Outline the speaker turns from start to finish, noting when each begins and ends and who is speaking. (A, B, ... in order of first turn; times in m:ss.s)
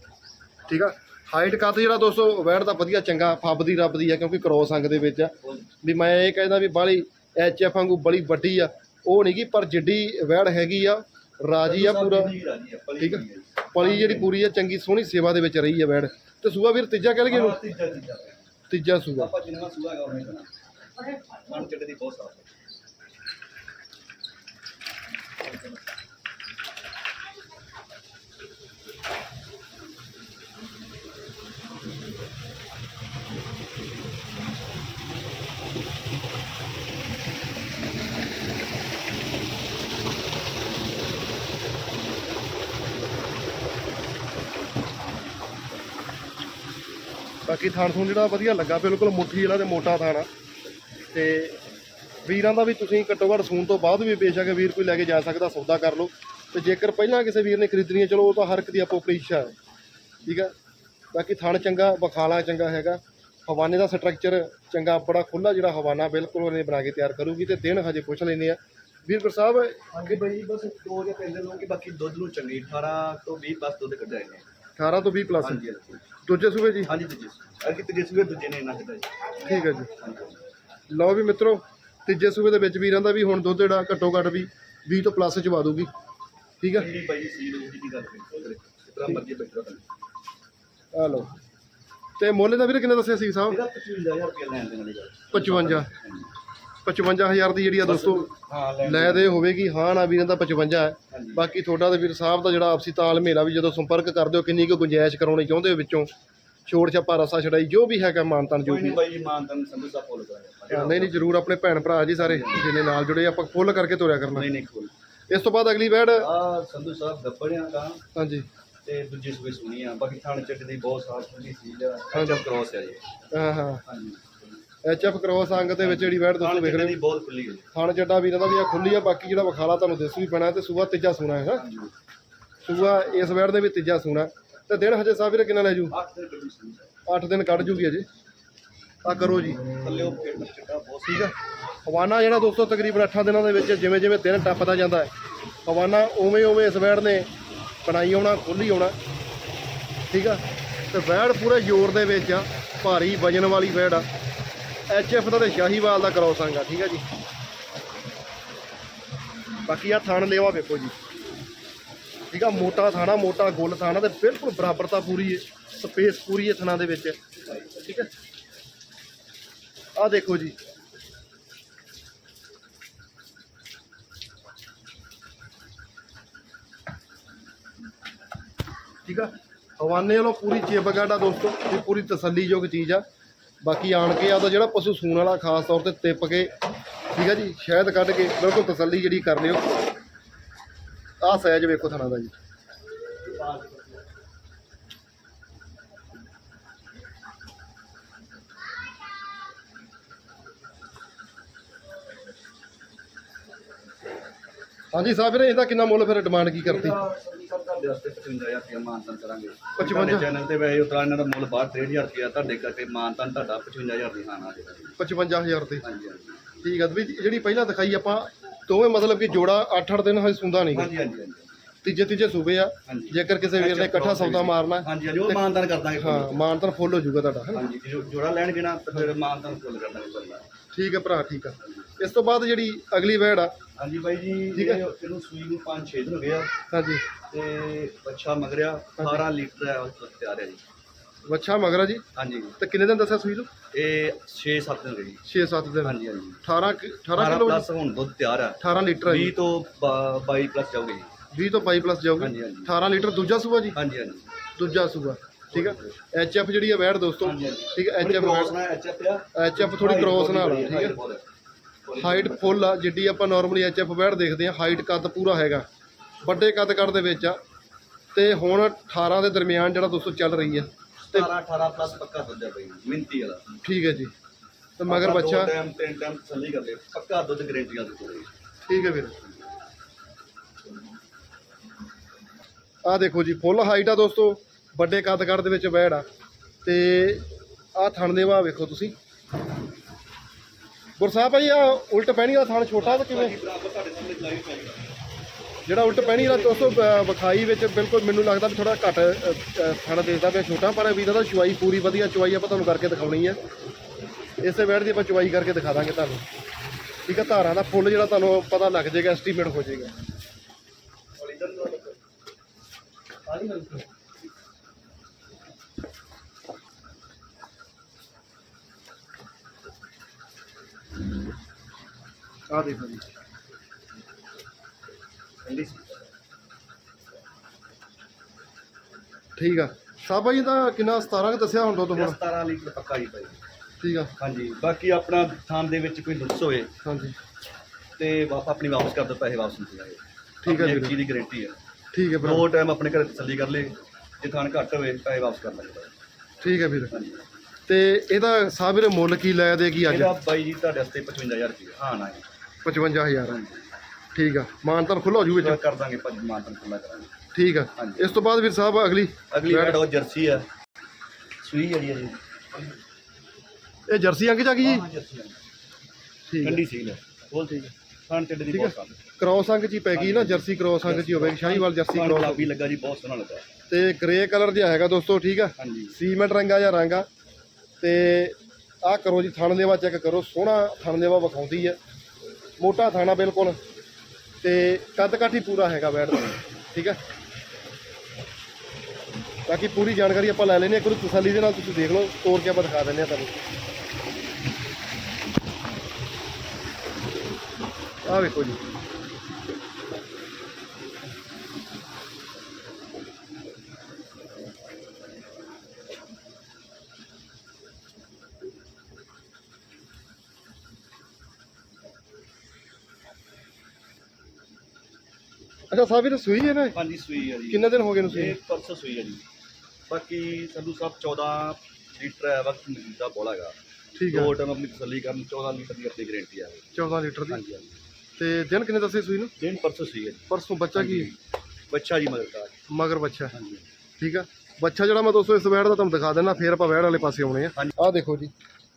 0:00.7-0:12.3 A
0:05.4-0:05.7 B
0:11.6-0:14.3 B
0:13.0-0:17.6 A
0:17.3-0:18.5 B
0:18.7-0:19.3 A
0:19.2-0:20.5 B
0:21.3-0:22.5 B
0:47.5-0:50.3 A
0:51.1-0:51.6 A
0:52.2-0:59.5 A
1:00.2-1:00.5 A
1:01.1-1:10.2 A
1:09.9-1:14.4 B
1:14.8-1:15.6 A
1:15.4-1:16.0 B
1:16.2-1:16.9 A
1:16.8-1:19.1 B
1:19.4-1:19.9 A
1:20.0-1:20.4 B
1:20.9-1:25.9 A
1:26.6-1:26.9 A
1:26.7-1:29.8 B
1:30.9-1:31.3 A
1:32.2-1:33.6 A
1:33.5-1:36.3 B
1:35.3-1:35.9 A
1:36.8-1:38.3 A
1:37.8-1:39.5 B
1:38.8-1:46.1 A
1:41.1-1:41.5 B
1:46.7-1:49.0 A
1:48.6-1:51.4 B
1:50.7-1:54.5 A
1:52.2-1:52.7 B
1:54.3-1:54.9 B
1:55.3-1:56.3 A
1:56.2-1:58.0 B
1:58.2-1:58.5 A
1:58.8-2:03.0 B
2:02.1-2:02.4 A
2:03.3-2:03.8 A
2:03.8-2:04.6 B
2:04.8-2:07.0 A
2:05.8-2:07.7 B
2:07.7-2:11.6 A
2:11.5-2:11.9 B
2:12.6-2:15.9 A
2:15.9-2:16.9 B
2:17.1-2:18.1 A
2:19.0-2:19.7 A
2:19.7-2:21.3 B
2:21.8-2:25.1 A
2:25.7-2:27.3 A
2:27.8-2:29.0 A
2:30.1-2:34.1 A
2:34.9-2:37.0 A
2:39.7-2:40.9 A
2:42.3-2:47.2 A
2:47.5-2:48.0 B
2:47.8-2:48.1 A
2:50.0-2:50.6 A
2:59.0-3:03.0 A
3:03.6-3:06.5 A
3:07.1-3:09.7 A
3:11.2-3:12.4 A
3:13.2-3:14.0 B
3:24.9-3:27.0 A
3:26.6-3:35.0 B
3:29.8-3:30.3 A
3:35.0-3:35.8 A
3:35.8-3:36.4 B
3:36.6-3:40.9 A
3:40.7-3:41.6 B
3:41.8-3:45.5 A
3:42.9-3:46.4 B
3:46.0-3:47.6 A
3:47.5-3:50.4 B
3:50.7-3:53.5 A
3:53.8-3:56.5 B
3:54.6-3:54.8 A
3:56.7-3:57.0 A
3:57.3-4:00.6 B
3:59.0-3:59.2 A
4:01.3-4:02.0 A
4:02.2-4:02.6 B
4:02.6-4:03.5 A
4:03.7-4:05.2 B
4:05.2-4:07.7 A
4:05.8-4:06.4 B
4:07.2-4:11.1 B
4:08.6-4:09.4 A
4:11.3-4:13.8 A
4:12.2-4:12.7 B
4:13.7-4:14.3 B
4:14.6-4:18.6 A
4:15.5-4:15.9 B
4:17.2-4:21.2 B
4:19.4-4:21.0 A
4:21.9-4:22.6 B
4:22.0-4:25.6 A
4:26.2-4:27.4 A
4:28.1-4:31.3 A
4:31.0-4:33.4 B
4:33.6-4:34.1 A
4:34.8-4:35.6 A
4:34.9-4:38.3 B
4:38.7-4:39.2 A
4:42.8-4:46.0 A
4:46.6-4:49.0 A
4:51.0-4:53.4 A
4:52.8-4:54.9 B
4:55.7-5:03.4 A
4:55.9-4:56.9 B
5:04.4-5:06.2 A
5:07.1-5:09.9 A
5:11.2-5:12.0 B
5:13.3-5:13.8 B
5:22.5-5:23.1 A
5:25.4-5:26.1 B
5:29.4-5:32.2 A
5:31.9-5:33.4 B
5:33.8-5:34.1 A
5:34.2-5:36.7 B
5:36.8-5:37.2 A
5:38.0-5:41.6 B
5:40.4-5:41.0 A
5:41.9-5:42.5 A
5:42.2-5:45.9 B
5:46.4-5:47.0 A
5:46.9-5:47.2 B
5:47.7-5:50.1 A
5:49.8-5:52.2 B
5:52.6-5:53.4 A
5:53.3-5:53.6 B
5:54.2-5:55.6 A
5:55.3-5:57.1 B
5:57.3-5:59.8 A
5:57.8-5:58.2 B
5:59.3-6:00.5 B
6:01.4-6:02.8 B
6:03.9-6:04.8 A
6:04.6-6:05.4 B
6:06.3-6:06.6 A
6:06.4-6:09.0 B
6:08.5-6:12.5 A
6:09.9-6:13.5 B
6:13.7-6:17.1 A
6:15.6-6:16.0 B
6:17.8-6:21.8 A
6:22.6-6:23.6 A
6:24.4-6:27.0 A
6:29.5-6:33.4 A
6:38.1-6:38.6 A
6:55.7-6:56.8 A
6:56.7-6:59.2 B
6:57.5-6:58.4 A
6:59.9-7:03.6 B
7:04.0-7:04.3 A
7:04.1-7:07.8 B
7:06.8-7:07.4 A
7:08.2-7:09.3 A
7:09.4-7:11.2 B
7:10.3-7:11.1 A
7:11.7-7:12.6 B
7:12.7-7:13.3 A
7:13.3-7:13.7 B
7:14.0-7:18.3 A